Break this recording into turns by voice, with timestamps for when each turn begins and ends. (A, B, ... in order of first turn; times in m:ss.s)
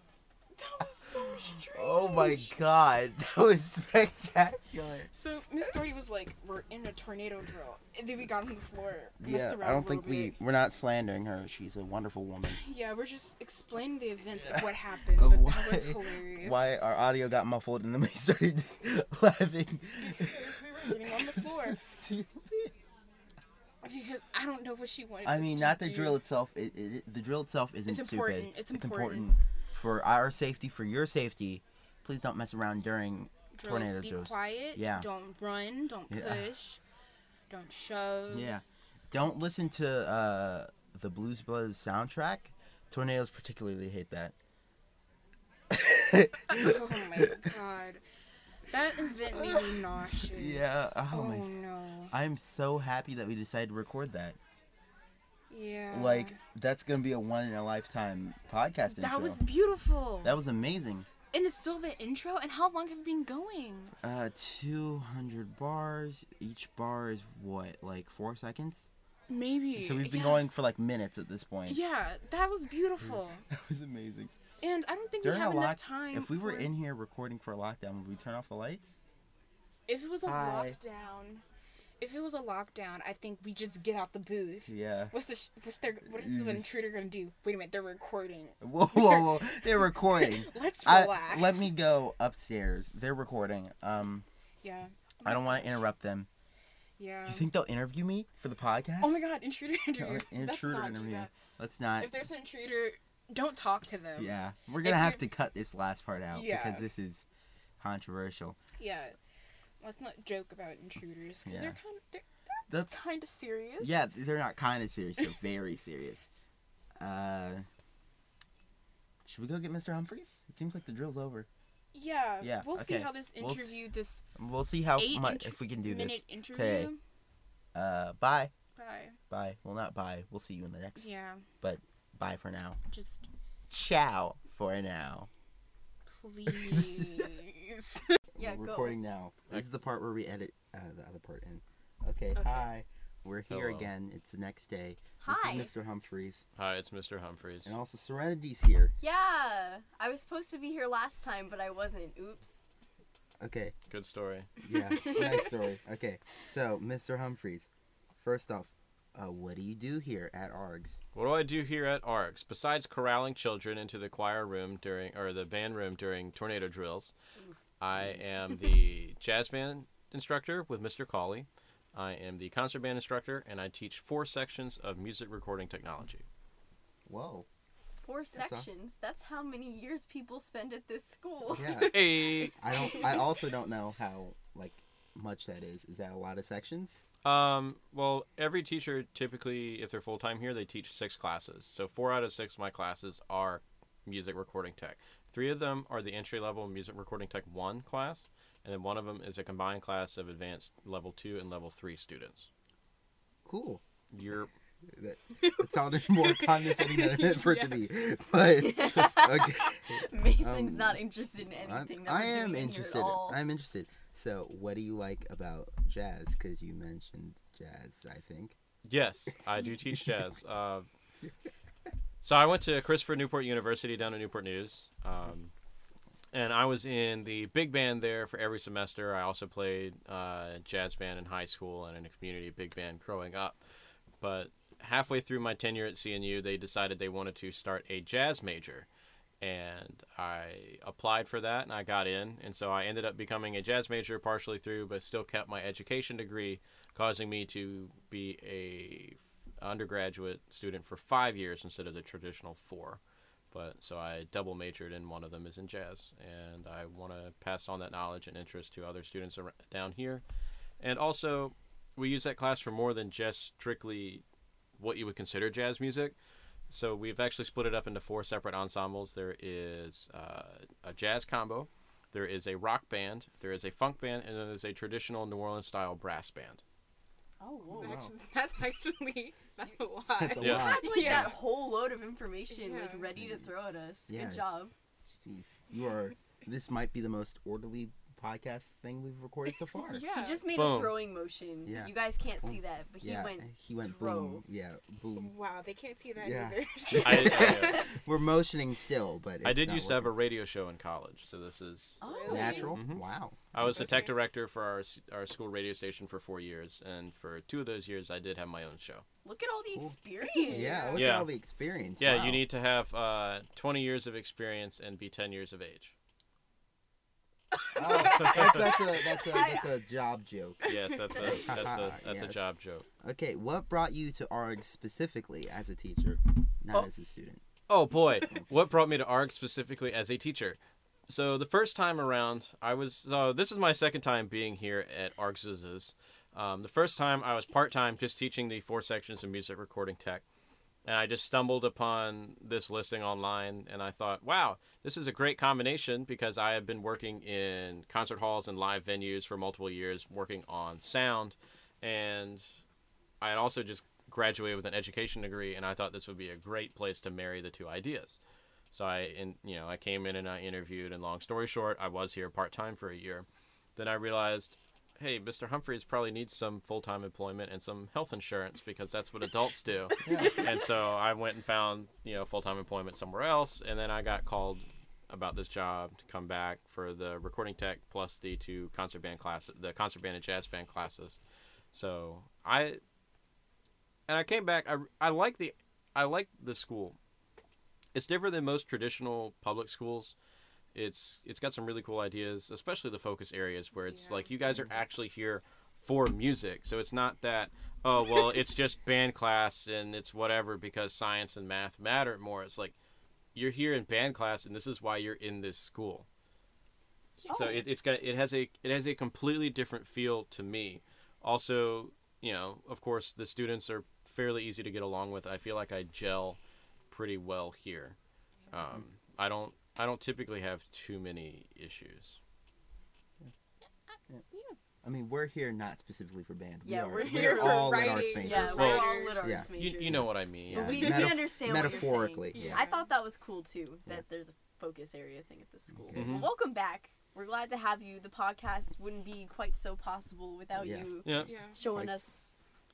0:00.5-0:02.5 A
0:01.2-0:05.1 B
0:05.1-0:10.4 A
0:09.2-0:12.6 B
0:12.4-0:16.6 A
0:14.4-0:22.7 B
0:20.0-0:21.8 A
0:23.8-0:26.2 A
0:25.2-0:35.1 B
0:27.8-0:29.3 A
0:33.5-0:36.8 A
0:36.1-0:36.5 B
0:37.5-0:38.5 A
0:38.3-0:44.3 B
0:45.7-0:47.5 B
0:46.5-0:48.0 A
0:48.7-0:52.1 A
0:49.3-0:54.4 B
0:55.5-0:56.3 A
0:55.9-0:59.4 B
0:58.9-1:00.4 A
1:00.2-1:01.1 B
1:01.3-1:03.9 A
1:04.0-1:08.9 B
1:09.3-1:10.4 A
1:09.8-1:11.8 B
1:11.6-1:13.4 A
1:13.0-1:14.3 B
1:14.6-1:16.7 A
1:15.2-1:19.0 B
1:19.9-1:21.4 A
1:20.2-1:20.8 B
1:22.0-1:31.7 A
1:24.7-1:25.1 B
1:26.1-1:26.7 B
1:28.6-1:34.2 B
1:34.6-1:35.8 A
1:35.2-1:36.3 B
1:37.0-1:37.5 A
1:37.2-1:39.2 B
1:39.0-1:41.3 A
1:40.0-1:42.1 B
1:42.0-1:45.2 A
1:44.2-1:47.2 B
1:46.3-1:46.9 A
1:47.8-1:48.6 B
1:48.8-1:49.2 A
1:49.8-1:54.0 A
1:51.4-1:51.8 B
1:52.7-1:53.1 B
1:53.8-1:56.3 B
1:57.0-1:57.6 B
1:59.2-2:01.5 B
2:01.9-2:04.2 A
2:02.4-2:03.8 B
2:04.4-2:06.9 B
2:05.0-2:07.0 A
2:07.7-2:08.5 B
2:08.8-2:09.2 A
2:09.3-2:12.8 B
2:11.0-2:11.4 A
2:12.9-2:13.2 A
2:13.7-2:15.3 B
2:16.1-2:18.2 A
2:16.5-2:17.3 B
2:18.3-2:26.4 B
2:18.4-2:19.0 C
2:22.3-2:22.7 A
2:23.5-2:23.9 D
2:25.2-2:25.7 C
2:26.6-2:27.7 D
2:27.6-2:28.9 B
2:29.0-2:32.6 C
2:33.4-2:33.8 B
2:33.9-2:34.5 D
2:34.6-2:37.7 B
2:34.7-2:35.6 A
2:38.2-2:41.0 B
2:41.1-2:47.1 D
2:47.8-2:56.2 D
2:57.1-2:57.5 B
2:58.0-3:01.7 C
2:58.3-2:58.7 B
3:01.5-3:07.0 B
3:01.7-3:02.6 D
3:07.2-3:22.5 D
3:23.4-3:23.8 B
3:24.1-3:24.5 D
3:24.9-3:31.0 B
3:25.4-3:27.8 A
3:28.5-3:33.4 C
3:31.6-3:38.6 B
3:38.9-3:40.9 D
3:42.2-3:45.5 D
3:46.3-3:53.6 D
3:54.2-3:58.9 D
3:59.4-4:13.0 D
4:13.5-4:20.2 D
4:20.8-4:24.2 D
4:24.8-4:26.2 D
4:26.7-4:36.6 D
4:37.4-4:38.0 C
4:37.7-4:38.1 B
4:37.8-4:41.4 A
4:40.2-4:41.4 B
4:40.4-4:40.7 D
4:40.5-4:44.7 C
4:42.5-4:43.1 A
4:43.2-4:43.5 B
4:44.1-4:44.4 B
4:45.2-4:50.0 B
4:49.8-4:50.4 A
4:50.0-4:54.4 C
4:50.5-4:51.0 D
4:51.6-4:55.3 B
4:55.2-4:57.9 A
4:56.2-5:00.1 B
4:57.0-4:57.9 D
4:59.4-5:02.0 D
5:02.0-5:02.8 C
5:02.0-5:02.8 A
5:02.3-5:04.1 B
5:02.7-5:03.0 D
5:03.5-5:09.0 D
5:03.7-5:04.1 A
5:09.2-5:11.0 C
5:09.8-5:12.4 B
5:10.3-5:11.1 A
5:10.9-5:11.3 D
5:12.0-5:15.9 D
5:17.7-5:22.4 B
5:17.8-5:19.8 C
5:18.1-5:18.6 D
5:20.6-5:22.8 D
5:23.0-5:27.4 B
5:27.7-5:40.2 D
5:40.8-5:52.4 D
5:53.2-5:58.2 D
5:58.7-6:21.2 D
6:10.0-6:10.5 B
6:21.7-6:22.8 D
6:24.1-6:27.0 D
6:27.9-6:30.2 D
6:30.7-6:42.7 D
6:33.8-6:34.3 A
6:43.3-6:46.1 D
6:47.3-6:47.6 C
6:47.3-6:56.4 D
6:56.9-6:58.0 D
6:58.5-7:02.2 D
7:04.3-7:04.6 A
7:04.8-7:12.6 B
7:06.6-7:22.4 C
7:07.0-7:09.4 A
7:08.5-7:09.0 D
7:09.5-7:11.1 D
7:10.8-7:12.9 A
7:15.8-7:16.3 B
7:15.9-7:16.3 D
7:20.5-7:20.9 B
7:21.0-7:21.3 D
7:21.2-7:21.6 A
7:21.6-7:22.0 B